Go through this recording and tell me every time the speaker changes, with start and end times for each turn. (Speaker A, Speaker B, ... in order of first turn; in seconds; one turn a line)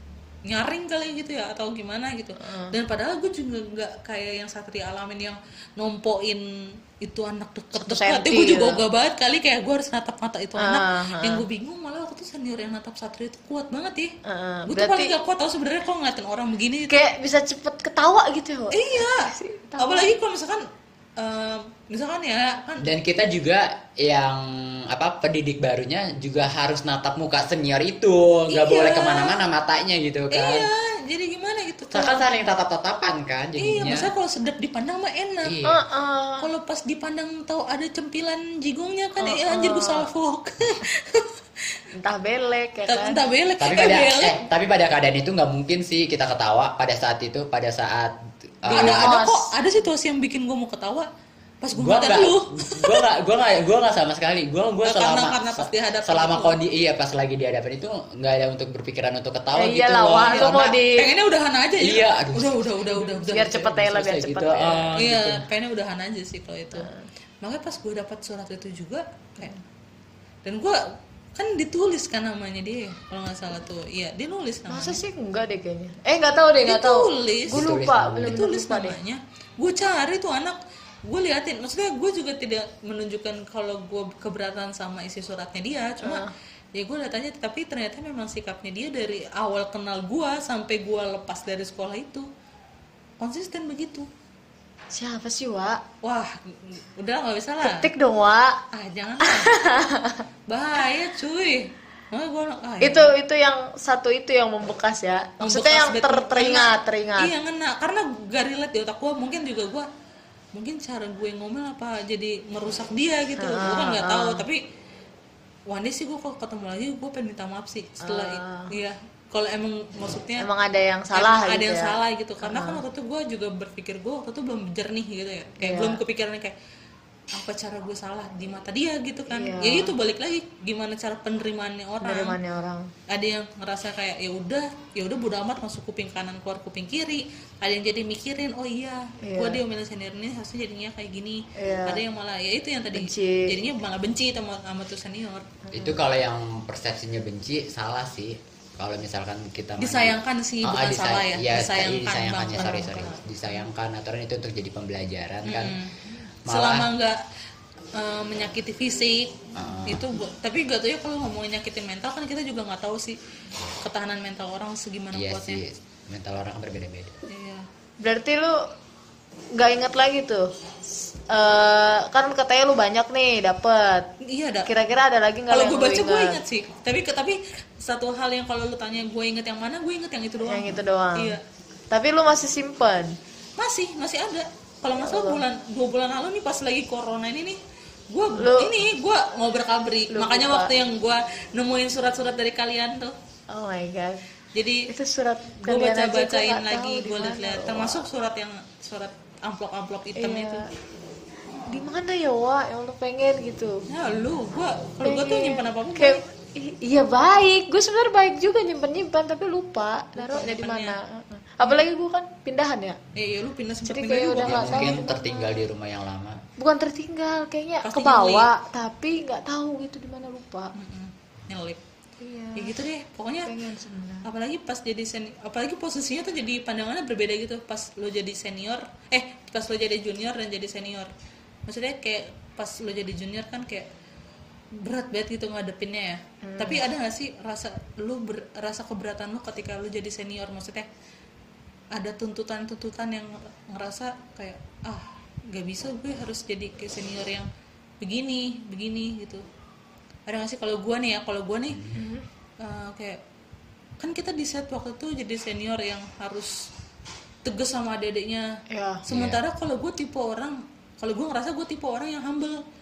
Speaker A: 0.5-6.4
Speaker B: 2.4-2.8
Speaker A: 7.0-17.0
Speaker B: 7.7-8.8
Speaker B: 10.6-11.4
Speaker B: 14.2-15.2
Speaker B: 16.9-20.1
Speaker A: 18.7-20.6
Speaker A: 21.2-22.9
Speaker C: 22.8-30.7
Speaker A: 28.5-29.4
Speaker A: 30.3-32.2
Speaker C: 31.9-34.1
Speaker A: 33.6-35.6
Speaker C: 35.4-35.8
Speaker B: 35.6-36.5
Speaker A: 36.4-41.8
Speaker B: 39.2-40.1
Speaker B: 41.9-43.2
Speaker A: 42.9-44.4
Speaker C: 43.6-49.1
Speaker B: 48.7-49.5
Speaker A: 48.7-51.1
Speaker A: 51.6-53.0
Speaker C: 51.7-60.8
Speaker A: 54.9-56.6
Speaker B: 59.5-61.1
Speaker A: 60.3-63.6
Speaker C: 61.8-62.7
Speaker B: 63.0-64.9
Speaker C: 63.4-65.4
Speaker A: 65.0-66.9
Speaker B: 66.7-67.0
Speaker A: 67.4-69.6
Speaker A: 70.4-70.8
Speaker A: 71.3-75.0
Speaker B: 74.7-79.0
Speaker A: 76.6-77.7
Speaker C: 77.5-78.4
Speaker A: 78.2-92.3
Speaker B: 86.0-86.3
Speaker A: 93.2-94.1
Speaker B: 94.9-95.8
Speaker A: 96.0-97.9
Speaker B: 97.6-98.6
Speaker A: 98.7-99.5
Speaker B: 99.2-100.2
Speaker A: 100.5-103.1
Speaker B: 102.8-107.3
Speaker A: 105.4-109.9
Speaker A: 110.5-114.6
Speaker B: 113.4-114.4
Speaker A: 115.7-120.5
Speaker B: 118.0-118.7
Speaker B: 120.4-122.8
Speaker A: 121.1-126.6
Speaker B: 125.6-126.0
Speaker A: 127.3-132.4
Speaker B: 129.3-129.9
Speaker B: 132.0-132.9
Speaker A: 133.1-145.5
Speaker B: 139.2-139.6
Speaker B: 141.6-142.0
Speaker B: 142.9-143.6
Speaker B: 145.7-146.0
Speaker C: 145.7-155.8
Speaker A: 149.8-152.9
Speaker B: 152.6-153.2
Speaker A: 155.4-155.9
Speaker C: 156.4-156.9
Speaker A: 156.5-157.2
Speaker A: 157.9-163.2
Speaker C: 159.6-160.1
Speaker A: 163.8-165.6
Speaker C: 165.1-167.2
Speaker A: 167.3-167.7
Speaker B: 168.0-168.6
Speaker B: 169.6-170.5
Speaker B: 171.2-174.1
Speaker A: 174.2-174.7
Speaker B: 174.7-176.4
Speaker A: 175.5-181.4
Speaker B: 180.4-181.4
Speaker B: 181.9-183.2
Speaker A: 183.6-187.6
Speaker B: 185.0-185.4
Speaker A: 188.1-193.1
Speaker B: 188.4-188.7
Speaker B: 190.1-190.8
Speaker B: 193.5-194.2
Speaker A: 194.6-194.9
Speaker B: 194.9-198.1
Speaker A: 195.6-200.6
Speaker B: 200.2-200.7
Speaker B: 201.7-203.8
Speaker A: 203.9-206.2
Speaker B: 205.0-213.0
Speaker A: 210.2-211.0
Speaker A: 213.1-215.0
Speaker B: 213.9-215.6
Speaker C: 214.4-216.4
Speaker B: 216.6-220.7
Speaker A: 217.8-218.5
Speaker A: 220.7-221.8
Speaker B: 222.2-222.8
Speaker A: 222.6-223.6
Speaker B: 223.4-224.3
Speaker A: 224.2-231.1
Speaker A: 231.7-233.9
Speaker A: 234.8-240.9
Speaker B: 236.4-236.8
Speaker A: 241.9-247.5
Speaker A: 248.0-249.4
Speaker A: 250.3-251.9
Speaker B: 251.9-252.2
Speaker A: 252.6-253.2
Speaker A: 254.0-256.7
Speaker A: 257.4-258.5
Speaker B: 258.7-259.0
Speaker C: 259.1-259.4
Speaker A: 259.1-262.6